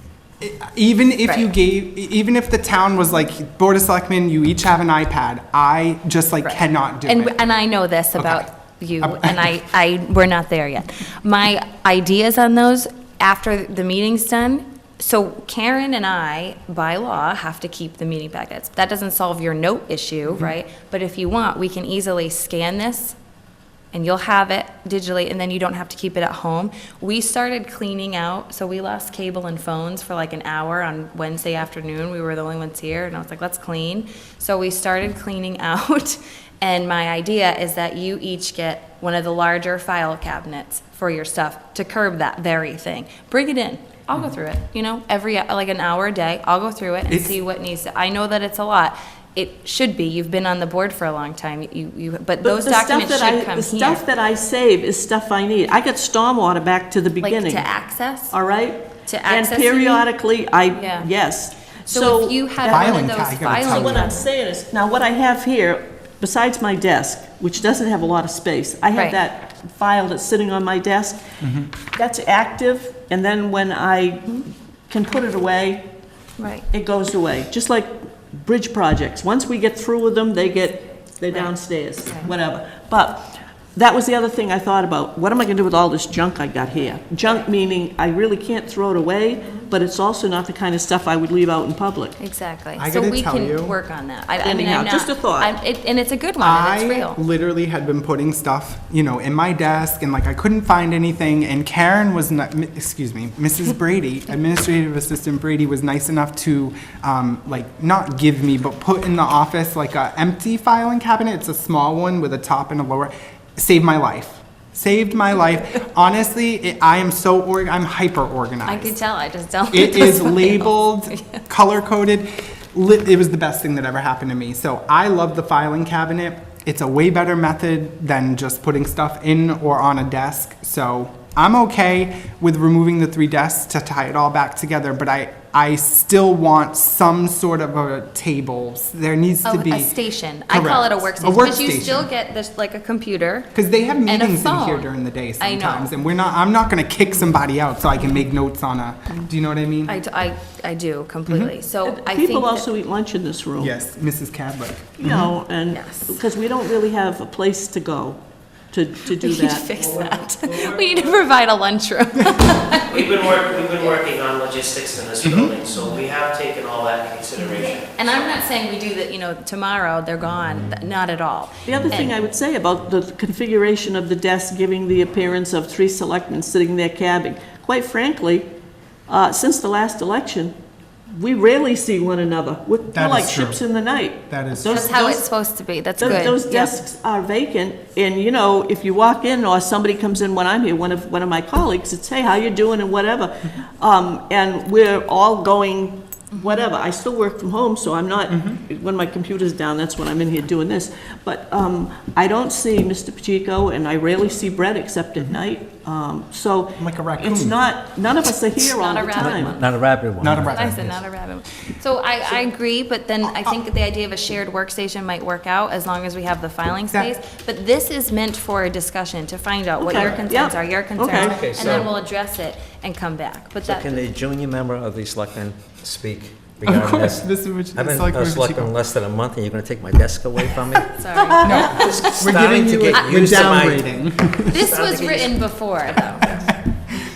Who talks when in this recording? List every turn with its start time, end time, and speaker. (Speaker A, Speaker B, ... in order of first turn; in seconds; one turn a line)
Speaker A: 0.4-7.3
Speaker B: 6.4-23.2
Speaker A: 8.2-8.5
Speaker A: 9.0-9.5
Speaker B: 23.9-54.0
Speaker A: 47.1-47.4
Speaker C: 52.4-57.7
Speaker B: 57.2-58.4
Speaker C: 58.3-63.1
Speaker B: 59.1-60.1
Speaker B: 60.7-61.1
Speaker B: 61.9-64.3
Speaker A: 62.7-64.1
Speaker C: 63.6-71.2
Speaker A: 71.4-71.7
Speaker C: 71.9-75.8
Speaker B: 76.4-76.7
Speaker C: 76.7-92.2
Speaker B: 92.2-97.2
Speaker A: 92.8-93.8
Speaker C: 94.4-95.5
Speaker A: 96.4-118.9
Speaker B: 118.7-121.4
Speaker A: 119.7-139.9
Speaker B: 139.4-143.5
Speaker A: 140.5-142.1
Speaker A: 143.5-150.0
Speaker B: 144.1-145.9
Speaker B: 149.9-152.7
Speaker A: 151.3-151.5
Speaker C: 151.8-153.8
Speaker A: 153.6-155.3
Speaker C: 155.0-158.2
Speaker B: 155.7-156.2
Speaker C: 158.7-159.7
Speaker B: 159.2-163.3
Speaker D: 160.0-160.8
Speaker D: 162.8-168.3
Speaker A: 165.2-165.6
Speaker B: 167.4-172.2
Speaker C: 171.7-178.5
Speaker E: 171.7-172.0
Speaker C: 179.1-180.5
Speaker C: 181.1-185.2
Speaker A: 182.9-183.6
Speaker A: 184.3-184.9
Speaker B: 184.7-186.8
Speaker C: 186.0-209.6
Speaker A: 186.0-186.3
Speaker A: 198.3-198.6
Speaker A: 206.8-207.6
Speaker B: 208.6-209.7
Speaker E: 209.2-211.0
Speaker A: 210.2-210.9
Speaker B: 210.3-224.1
Speaker C: 219.8-221.4
Speaker A: 221.1-221.6
Speaker E: 221.2-221.9
Speaker E: 223.6-233.9
Speaker A: 226.7-228.7
Speaker B: 230.9-232.3
Speaker A: 231.4-234.6
Speaker B: 234.5-236.3
Speaker E: 234.5-236.4